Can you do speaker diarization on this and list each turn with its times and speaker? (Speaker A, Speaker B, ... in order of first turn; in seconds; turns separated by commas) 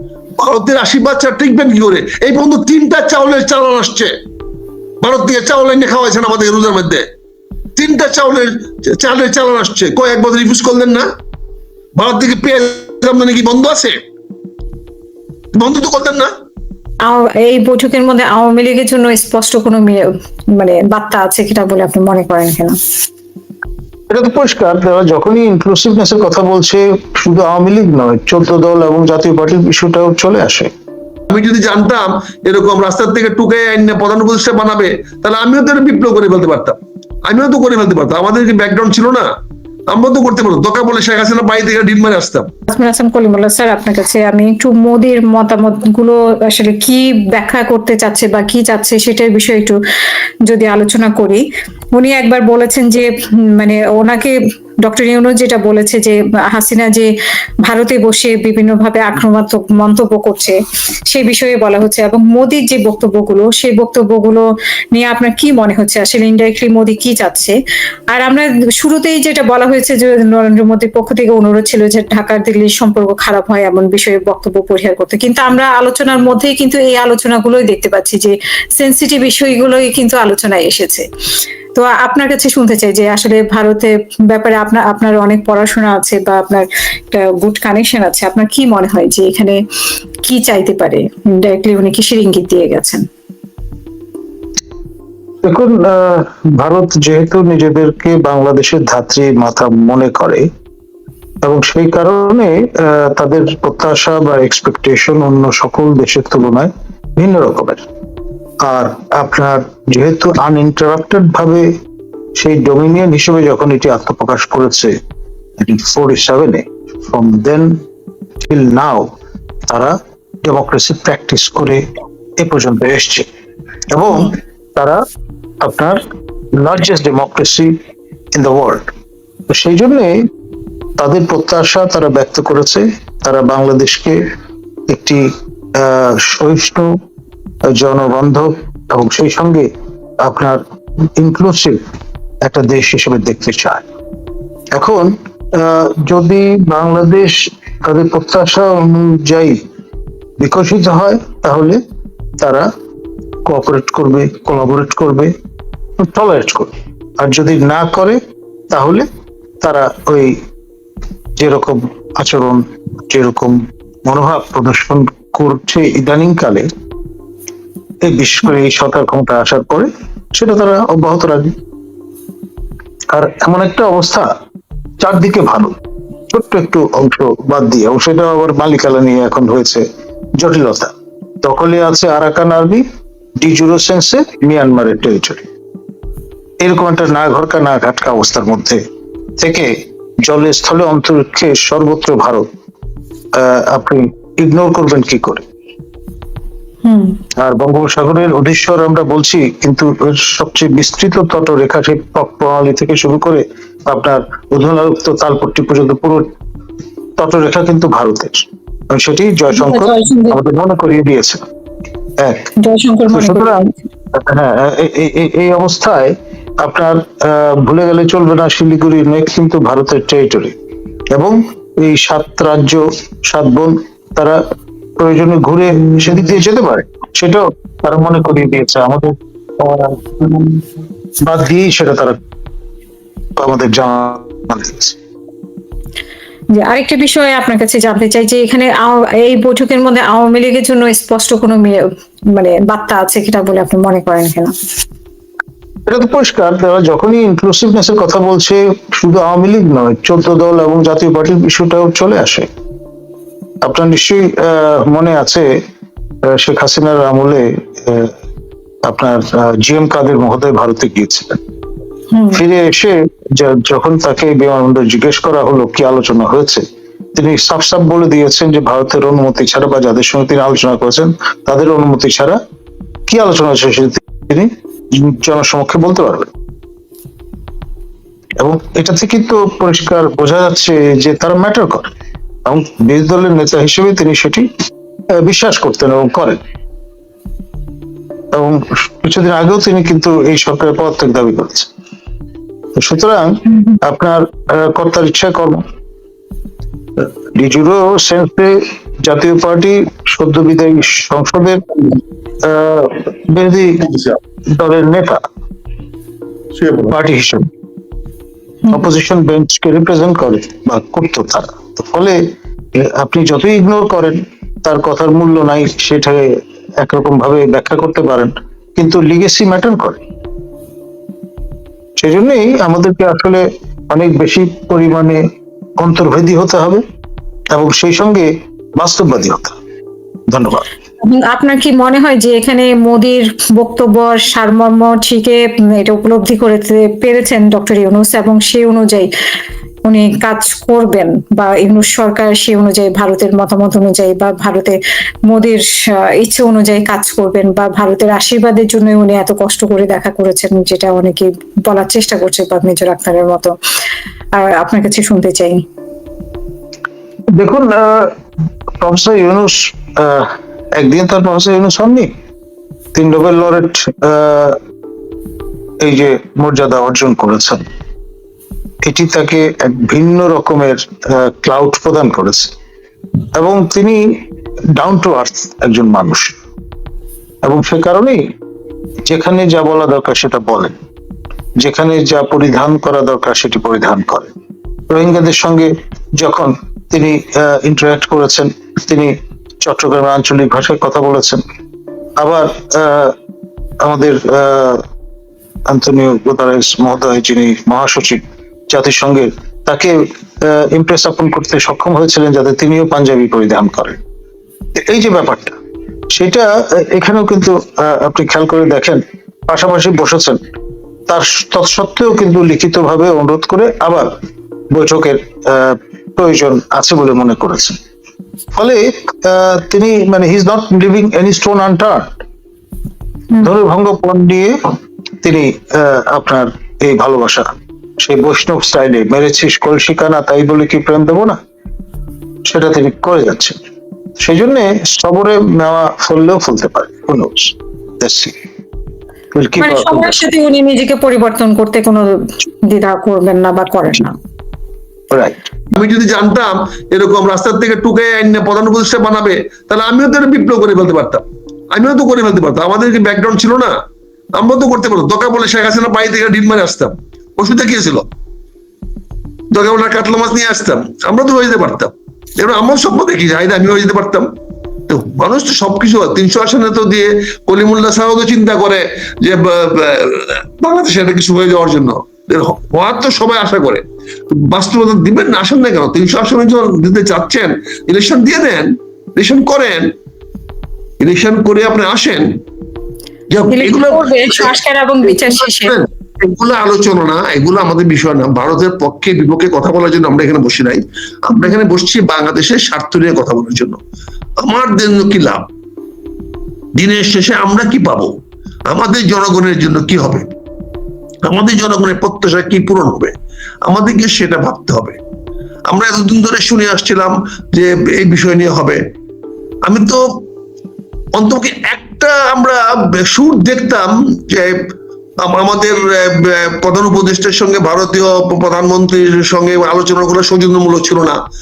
Speaker A: 0.4-4.1, Speaker A: 5.0-7.1, Speaker A: 7.8-11.1, Speaker A: 11.9-13.9, Speaker A: 15.5-16.3, Speaker B: 17.0-22.8, Speaker C: 24.1-30.7, Speaker A: 31.3-39.3, Speaker A: 39.9-42.5, Speaker B: 42.7-49.8, Speaker B: 50.4-51.4, Speaker B: 51.9-57.1, Speaker B: 57.6-67.5, Speaker B: 68.1-81.1, Speaker B: 81.8-89.6, Speaker B: 90.2-93.0, Speaker C: 95.4-100.5, Speaker C: 101.4-107.8, Speaker C: 108.6-111.8, Speaker C: 112.4-115.0, Speaker C: 115.6-117.8, Speaker C: 118.4-119.1, Speaker C: 119.7-121.8, Speaker C: 122.4-123.3, Speaker C: 123.9-125.0, Speaker C: 125.6-126.0, Speaker C: 126.6-127.8, Speaker C: 128.3-128.9, Speaker C: 129.5-130.1, Speaker C: 131.0-134.3, Speaker C: 134.9-136.9, Speaker C: 137.7-139.7, Speaker C: 140.2-140.6, Speaker C: 141.2-141.8, Speaker C: 142.4-143.8, Speaker C: 144.7-149.6, Speaker C: 150.4-151.8, Speaker C: 152.4-152.7, Speaker C: 153.5-155.3, Speaker C: 156.0-158.2, Speaker C: 158.7-159.1, Speaker C: 159.6-160.4, Speaker C: 161.4-166.7, Speaker C: 168.0-171.5, Speaker C: 173.1-174.3, Speaker C: 175.0-175.8, Speaker C: 176.3-179.8, Speaker C: 180.4-182.8, Speaker C: 183.4-185.4, Speaker C: 186.6-188.8, Speaker C: 189.4-192.5, Speaker C: 193.3-195.5, Speaker B: 196.8-197.2, Speaker C: 197.4-206.3, Speaker C: 207.2-211.4, Speaker B: 209.5-210.4, Speaker C: 212.2-212.5, Speaker B: 212.6-213.8, Speaker C: 213.1-213.6, Speaker C: 214.1-220.6, Speaker C: 221.1-224.4, Speaker C: 225.0-230.7, Speaker C: 231.2-232.2, Speaker C: 233.3-235.0, Speaker B: 236.5-244.5, Speaker C: 245.9-252.5, Speaker C: 253.6-255.5, Speaker C: 256.3-258.1, Speaker C: 258.8-261.4, Speaker B: 262.1-262.4, Speaker C: 262.3-272.4, Speaker C: 273.1-276.3, Speaker C: 278.4-281.9, Speaker C: 282.4-284.5, Speaker C: 285.1-286.4, Speaker C: 288.3-291.7, Speaker C: 292.7-295.6, Speaker C: 297.3-301.6, Speaker C: 302.4-303.9, Speaker A: 303.9-304.1, Speaker C: 304.5-305.2, Speaker A: 306.5-306.9, Speaker C: 306.9-307.5, Speaker C: 308.7-320.0, Speaker C: 322.0-325.2, Speaker C: 325.8-326.8, Speaker C: 327.5-329.6, Speaker C: 330.3-330.6, Speaker B: 331.0-339.1, Speaker B: 339.9-344.8, Speaker B: 345.3-353.5, Speaker B: 354.3-355.6, Speaker C: 357.3-358.1, Speaker C: 358.8-362.1, Speaker C: 362.9-364.6, Speaker C: 365.8-367.6, Speaker C: 368.8-372.5, Speaker C: 373.3-374.2, Speaker C: 374.8-376.4, Speaker C: 377.4-378.2, Speaker C: 379.1-380.7, Speaker C: 381.6-384.3, Speaker C: 384.9-391.4, Speaker C: 392.2-393.1, Speaker C: 393.8-394.8, Speaker C: 395.7-404.0, Speaker C: 404.7-405.5, Speaker C: 406.1-410.4, Speaker C: 411.1-414.1, Speaker C: 414.7-417.8, Speaker C: 418.5-422.2, Speaker C: 423.4-431.4, Speaker C: 432.4-433.6, Speaker C: 434.2-438.3, Speaker C: 439.3-440.1, Speaker B: 439.6-444.1, Speaker C: 445.1-445.4, Speaker A: 445.7-453.8, Speaker A: 454.4-458.1, Speaker A: 459.5-464.3, Speaker A: 464.9-479.9, Speaker A: 481.0-482.4, Speaker A: 483.3-484.5, Speaker B: 483.5-485.7, Speaker A: 485.1-493.8, Speaker A: 494.4-495.5, Speaker A: 496.8-498.2, Speaker A: 498.7-500.3, Speaker A: 501.2-503.1, Speaker A: 503.6-505.0, Speaker A: 505.7-508.8, Speaker A: 509.6-510.2, Speaker A: 511.1-514.7, Speaker A: 515.2-521.2